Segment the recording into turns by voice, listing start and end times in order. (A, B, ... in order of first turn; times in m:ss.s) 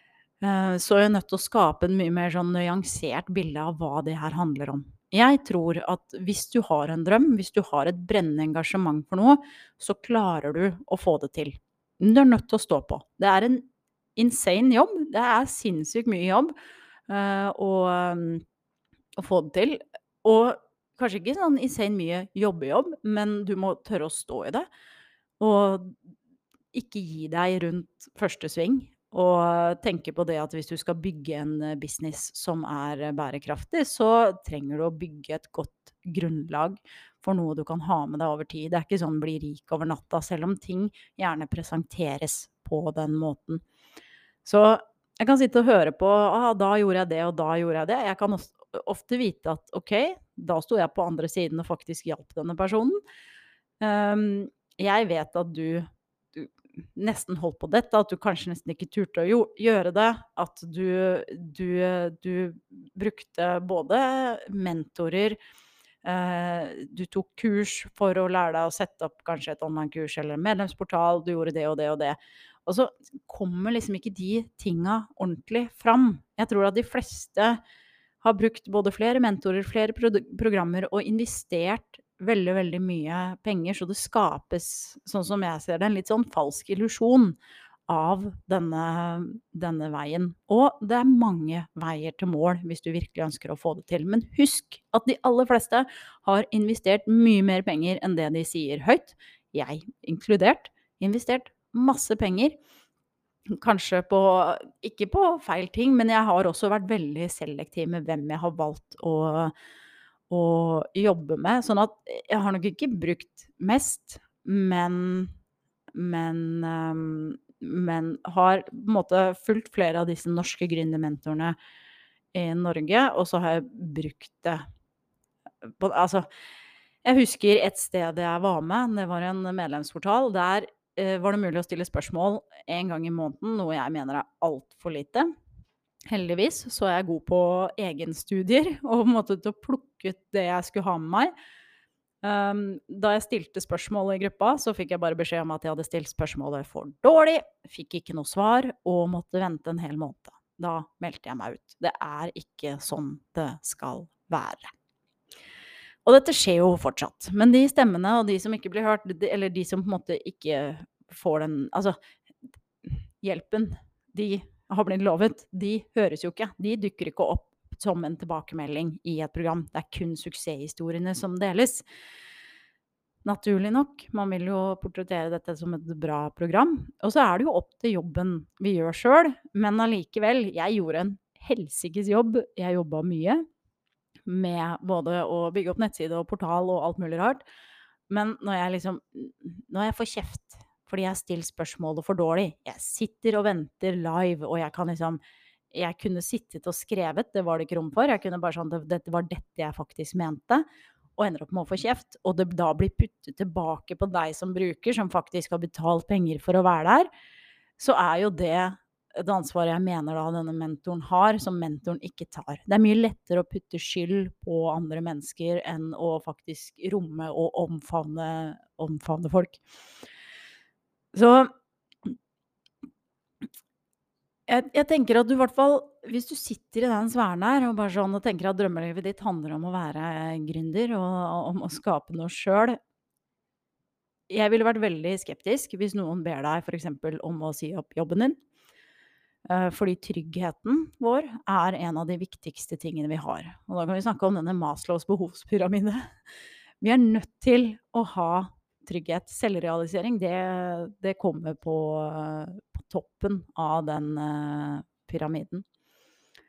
0:00.4-0:16.5 A
0:17.1-0:18.4 A
0:19.2-0:24.7 A
0:25.4-0:26.0 A
0:26.7-0:43.6 A
0:44.4-0:53.0 A
0:53.8-1:05.4 A
1:06.0-1:17.6 A
1:18.2-1:42.6 A
1:43.6-1:49.5 A
1:50.3-1:55.3 A
1:55.9-2:01.6 A
2:02.3-2:04.6 A
2:05.7-2:06.3 A
2:07.0-2:15.3 A
2:16.1-2:21.3 A
2:22.2-2:34.7 A
2:36.0-2:42.0 A
2:42.8-2:51.8 A
2:53.2-3:03.4 A
3:04.3-3:07.4 A
3:08.1-3:15.2 A
3:15.7-3:20.6 A
3:21.2-3:27.1 A
3:27.8-3:39.6 A
3:41.1-3:41.5 A
3:44.5-3:52.8 A
3:54.3-3:58.4 A
3:59.5-4:06.1 A
4:06.8-4:15.6 A